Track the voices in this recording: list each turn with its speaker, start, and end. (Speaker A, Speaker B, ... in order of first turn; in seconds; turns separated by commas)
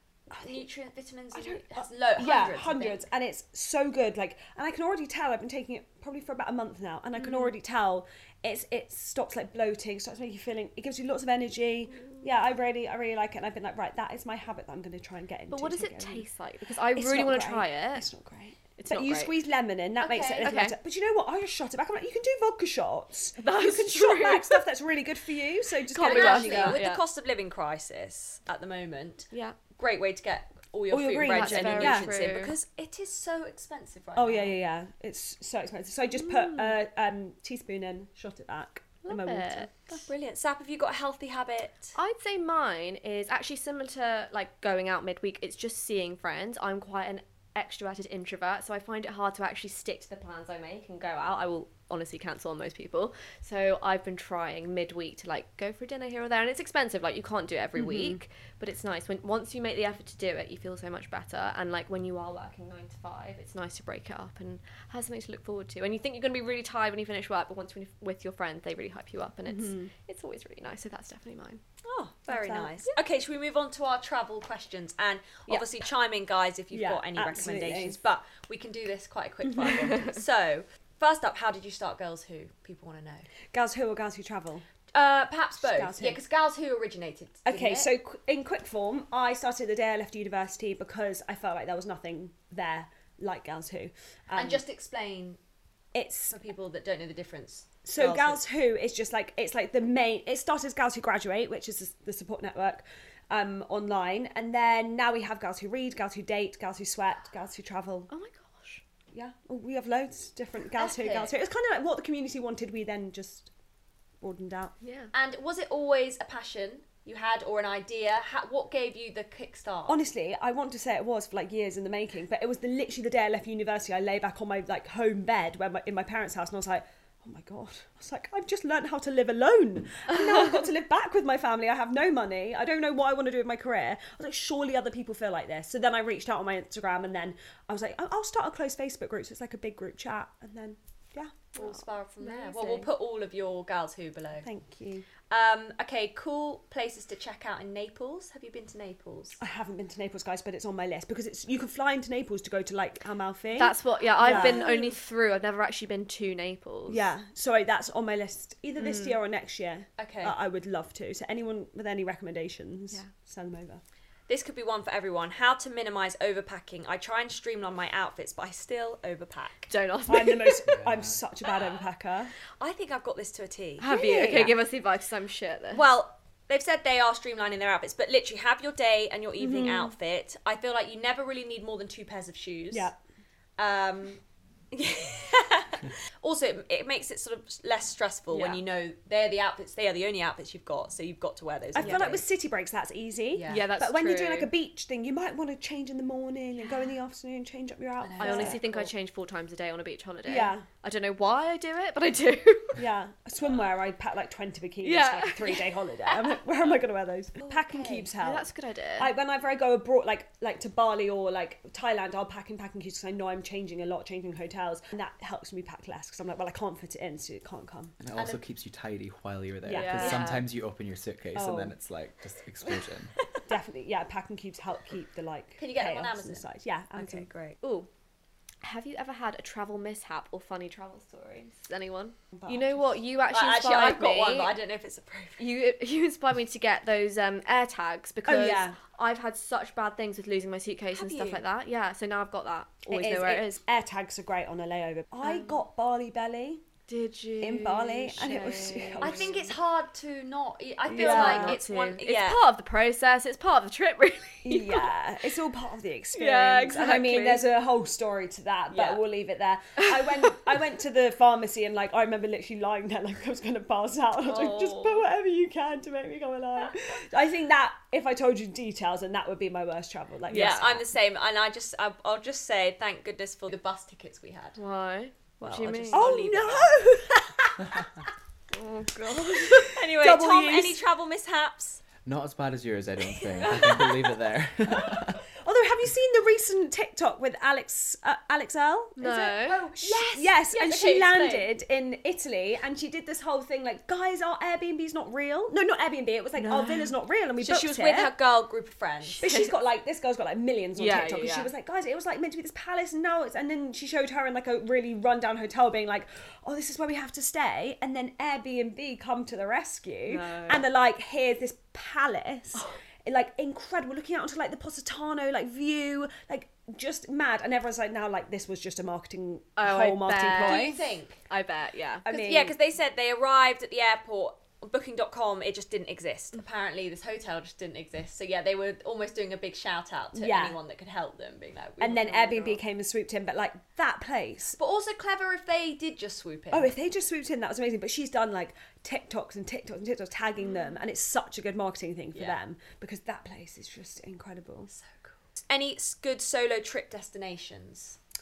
Speaker A: 0.3-3.1, Speaker B: 0.3-0.6, Speaker B: 1.7-16.2, Speaker C: 7.2-7.5, Speaker C: 11.9-12.2, Speaker C: 15.5-18.1, Speaker B: 16.9-26.8, Speaker C: 18.8-19.4, Speaker A: 20.0-20.6, Speaker C: 20.4-20.8, Speaker C: 23.4-24.7, Speaker C: 25.8-27.0, Speaker A: 26.0-34.6, Speaker C: 29.3-29.6, Speaker B: 30.9-32.3, Speaker C: 31.2-32.5, Speaker B: 34.1-40.0, Speaker C: 36.2-36.7, Speaker C: 39.0-39.7, Speaker A: 39.9-41.9, Speaker C: 42.0-71.6, Speaker B: 57.8-58.2, Speaker B: 69.5-69.9, Speaker A: 71.8-83.3, Speaker B: 72.2-72.8, Speaker B: 76.7-78.0, Speaker B: 83.5-84.7, Speaker A: 84.9-87.9, Speaker B: 85.6-86.2, Speaker B: 87.5-94.6, Speaker A: 94.3-95.4, Speaker B: 95.9-96.4, Speaker A: 96.3-98.4, Speaker B: 97.9-108.1, Speaker C: 108.1-108.8, Speaker B: 109.1-113.5, Speaker A: 110.8-111.3, Speaker B: 114.2-114.7, Speaker C: 114.8-115.1, Speaker A: 115.1-120.0, Speaker B: 119.9-141.4, Speaker A: 141.5-144.5, Speaker C: 141.6-142.9, Speaker B: 144.4-145.1, Speaker A: 145.3-149.4, Speaker B: 149.4-154.9, Speaker C: 153.5-157.1, Speaker B: 156.9-163.8, Speaker C: 158.8-159.2, Speaker A: 160.0-160.3, Speaker A: 164.3-169.7, Speaker C: 169.7-170.7, Speaker B: 170.1-172.3, Speaker D: 170.7-171.2, Speaker A: 172.6-174.5, Speaker C: 173.8-175.8, Speaker A: 175.7-182.9, Speaker B: 179.4-179.9, Speaker B: 182.7-182.9, Speaker A: 183.6-192.2, Speaker B: 188.3-188.6, Speaker B: 191.7-198.9, Speaker C: 191.8-192.1, Speaker A: 193.3-193.7, Speaker C: 193.5-194.5, Speaker A: 198.0-198.6, Speaker C: 198.2-202.8, Speaker B: 200.2-200.6, Speaker B: 202.8-217.9, Speaker C: 204.8-205.8, Speaker A: 207.4-208.1, Speaker C: 208.2-209.1, Speaker D: 218.0-223.1, Speaker A: 218.1-218.5, Speaker B: 219.6-220.4, Speaker C: 219.7-220.4, Speaker B: 221.3-221.7, Speaker B: 223.5-227.3, Speaker A: 225.6-227.6, Speaker C: 227.6-227.9, Speaker C: 228.6-234.5, Speaker B: 232.4-232.9, Speaker A: 233.3-235.4, Speaker C: 235.4-243.6, Speaker B: 238.2-238.8, Speaker A: 240.9-241.4, Speaker B: 242.9-246.6, Speaker C: 245.2-245.6, Speaker C: 246.9-249.3, Speaker B: 247.4-249.5, Speaker A: 249.0-252.4, Speaker B: 250.9-251.6, Speaker C: 250.9-254.9, Speaker B: 254.4-270.8, Speaker C: 256.1-257.5, Speaker A: 258.7-259.0, Speaker A: 264.3-264.8, Speaker C: 270.3-270.8, Speaker A: 270.3-274.6, Speaker C: 274.6-276.4, Speaker A: 275.4-276.7, Speaker B: 275.9-277.9, Speaker C: 278.5-279.8, Speaker B: 279.3-280.8, Speaker A: 279.7-281.8, Speaker D: 282.0-285.2, Speaker B: 283.4-283.8, Speaker B: 284.7-298.1, Speaker C: 289.0-289.9, Speaker A: 289.4-291.5, Speaker C: 296.4-296.9, Speaker A: 297.4-299.2, Speaker C: 299.1-299.6, Speaker B: 299.2-320.8, Speaker C: 300.8-301.5, Speaker C: 310.1-310.6, Speaker C: 319.6-322.1, Speaker A: 320.3-321.2, Speaker B: 322.1-322.6, Speaker A: 322.1-332.5, Speaker B: 330.1-330.6, Speaker B: 331.8-334.6, Speaker C: 332.2-332.6, Speaker A: 334.6-336.7, Speaker B: 336.5-344.7, Speaker A: 342.1-342.4, Speaker A: 344.7-348.0